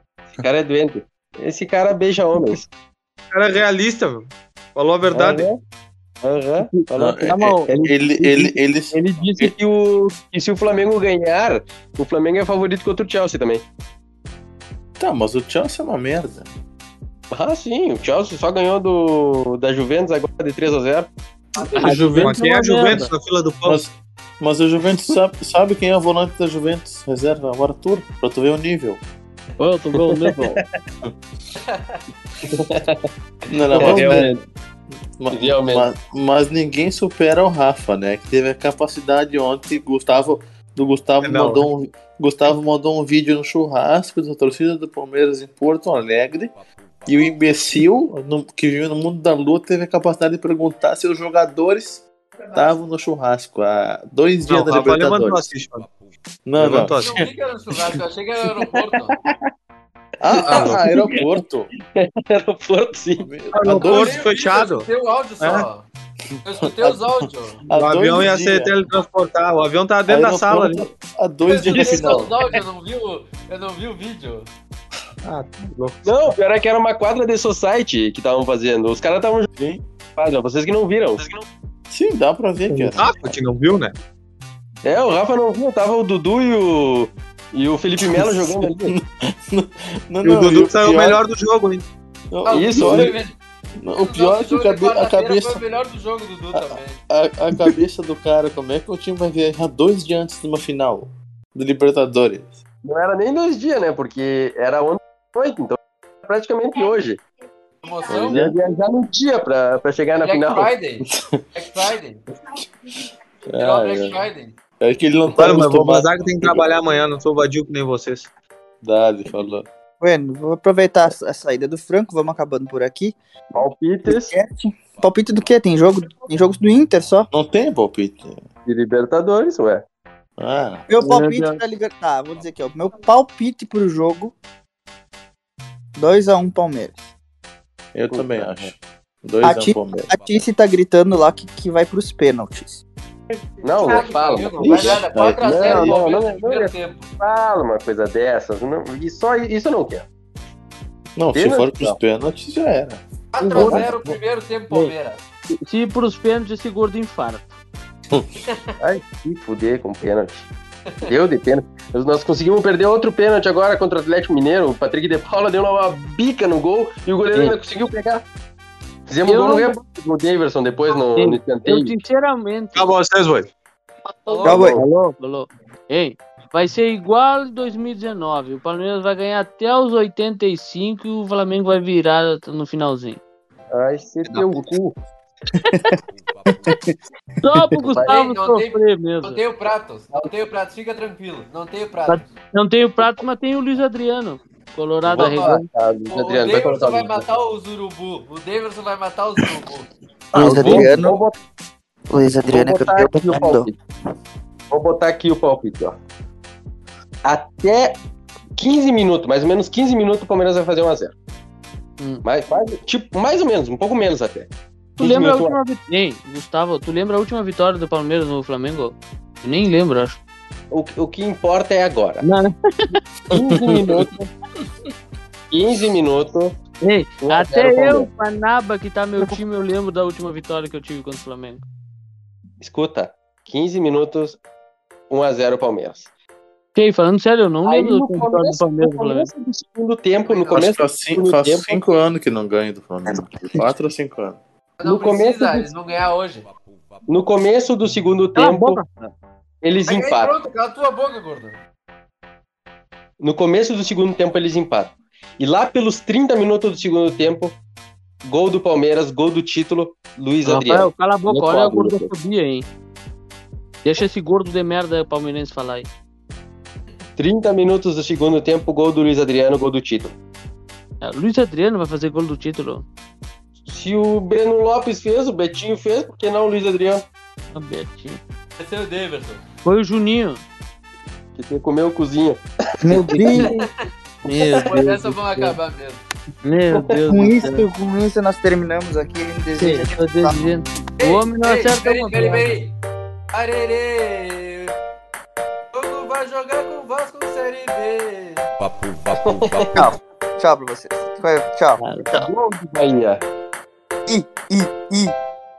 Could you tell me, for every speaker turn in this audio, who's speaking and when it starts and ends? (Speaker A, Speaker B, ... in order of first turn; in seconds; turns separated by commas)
Speaker A: 0.3-2.7, Speaker B: 3.3-5.5, Speaker A: 5.1-5.6, Speaker A: 6.2-8.5, Speaker C: 6.6-7.7, Speaker D: 7.0-9.5, Speaker C: 8.9-9.5, Speaker A: 9.4-13.6, Speaker D: 15.0-16.5, Speaker A: 17.3-21.1, Speaker E: 21.5-22.1, Speaker D: 21.8-22.4, Speaker C: 21.8-23.1, Speaker B: 22.2-23.8, Speaker D: 23.6-29.0, Speaker C: 29.6-30.6, Speaker E: 31.6-32.0, Speaker A: 32.5-33.0, Speaker D: 33.5-34.4, Speaker A: 33.7-34.4, Speaker D: 35.2-55.5, Speaker A: 35.3-35.9, Speaker B: 41.2-41.6, Speaker B: 54.5-55.9, Speaker D: 56.5-58.0, Speaker B: 56.6-57.3, Speaker E: 57.0-59.1, Speaker A: 59.1-59.4, Speaker D: 60.2-61.7, Speaker A: 60.3-61.4, Speaker E: 60.4-60.7, Speaker B: 60.5-60.8, Speaker A: 61.9-63.3, Speaker D: 63.2-64.2, Speaker B: 63.5-64.9, Speaker E: 63.6-65.9, Speaker B: 65.4-65.7, Speaker E: 66.4-67.6, Speaker D: 66.6-68.7, Speaker B: 67.7-70.9, Speaker D: 70.1-72.4, Speaker E: 71.4-74.5, Speaker B: 75.2-76.1, Speaker A: 76.0-79.5, Speaker D: 79.5-79.8, Speaker A: 80.2-81.4, Speaker D: 81.9-83.3, Speaker B: 82.7-83.9, Speaker A: 84.8-88.9, Speaker D: 88.0-91.2, Speaker B: 90.2-91.8, Speaker D: 92.3-93.2, Speaker E: 92.5-93.3, Speaker A: 92.5-93.2, Speaker D: 93.8-95.6, Speaker E: 93.9-97.0, Speaker D: 96.5-102.5, Speaker A: 102.8-107.2, Speaker E: 107.8-108.5, Speaker D: 108.1-108.5, Speaker A: 108.2-110.7, Speaker E: 110.2-112.2, Speaker D: 111.1-111.9, Speaker D: 113.5-114.3, Speaker E: 113.5-114.6, Speaker D: 114.8-116.9, Speaker B: 115.3-118.3, Speaker D: 118.8-119.7, Speaker F: 120.0-123.1, Speaker A: 123.5-124.3, Speaker F: 124.0-127.3, Speaker D: 127.3-128.4, Speaker A: 128.7-129.8, Speaker D: 130.4-130.9, Speaker F: 130.9-134.3, Speaker C: 131.0-131.6, Speaker F: 135.9-137.0, Speaker D: 137.9-140.1, Speaker A: 138.1-138.7, Speaker F: 139.4-142.8, Speaker E: 143.6-147.1, Speaker A: 143.6-150.1, Speaker D: 144.6-146.0, Speaker D: 151.2-153.0, Speaker A: 151.3-152.0, Speaker E: 153.3-155.2, Speaker C: 153.4-154.2, Speaker A: 153.6-153.9, Speaker C: 155.5-157.6, Speaker A: 158.8-160.5, Speaker A: 161.0-168.2, Speaker A: 169.1-172.0, Speaker C: 169.3-169.8, Speaker C: 171.2-172.9, Speaker B: 172.7-173.5, Speaker E: 174.2-174.7, Speaker A: 174.3-174.8, Speaker F: 174.4-174.8, Speaker C: 174.6-183.2, Speaker A: 183.7-185.0, Speaker F: 184.3-184.6, Speaker F: 185.7-186.0, Speaker F: 186.5-186.8, Speaker C: 187.4-189.4, Speaker E: 188.0-192.3, Speaker C: 192.1-195.7, Speaker A: 195.0-197.3, Speaker E: 195.1-199.9, Speaker F: 200.3-201.2, Speaker A: 200.3-201.3, Speaker C: 200.4-200.9, Speaker F: 202.1-203.7, Speaker A: 202.4-203.7, Speaker A: 204.7-206.0, Speaker A: 207.2-208.0, Speaker A: 208.6-211.1, Speaker A: 212.2-214.5, Speaker C: 215.0-220.2, Speaker A: 215.0-215.6, Speaker A: 220.7-222.2, Speaker C: 222.2-222.9, Speaker D: 223.3-224.0, Speaker A: 223.3-224.3, Speaker A: 225.5-226.5, Speaker C: 226.8-231.6, Speaker A: 227.2-228.1, Speaker A: 232.6-234.4, Speaker A: 235.1-236.1, Speaker C: 236.7-239.3, Speaker A: 237.6-241.8, Speaker E: 240.3-240.7, Speaker D: 240.5-244.4, Speaker F: 243.1-243.6, Speaker E: 244.8-246.5, Speaker A: 244.8-245.7, Speaker A: 247.1-248.8, Speaker C: 248.3-249.0, Speaker A: 249.6-250.3, Speaker E: 249.8-251.6, Speaker A: 253.2-257.6, Speaker A: 258.2-262.1, Speaker C: 260.4-262.6, Speaker C: 263.8-265.9, Speaker A: 267.2-270.1, Speaker C: 271.0-272.8, Speaker A: 273.7-277.1, Speaker C: 277.5-278.2, Speaker E: 278.6-279.4, Speaker C: 279.6-280.4, Speaker A: 281.4-283.0, Speaker F: 282.8-283.5, Speaker C: 282.9-283.5, Speaker E: 283.4-283.7, Speaker C: 284.2-285.6, Speaker E: 284.7-286.0, Speaker C: 286.4-287.7, Speaker A: 286.7-287.0, Speaker F: 287.1-290.5, Speaker C: 289.5-292.5, Speaker E: 291.0-292.7, Speaker E: 293.3-294.7, Speaker E: 295.7-298.5, Speaker A: 299.1-299.9, Speaker F: 299.7-302.2, Speaker C: 301.8-302.1, Speaker A: 302.1-303.2, Speaker F: 304.1-305.1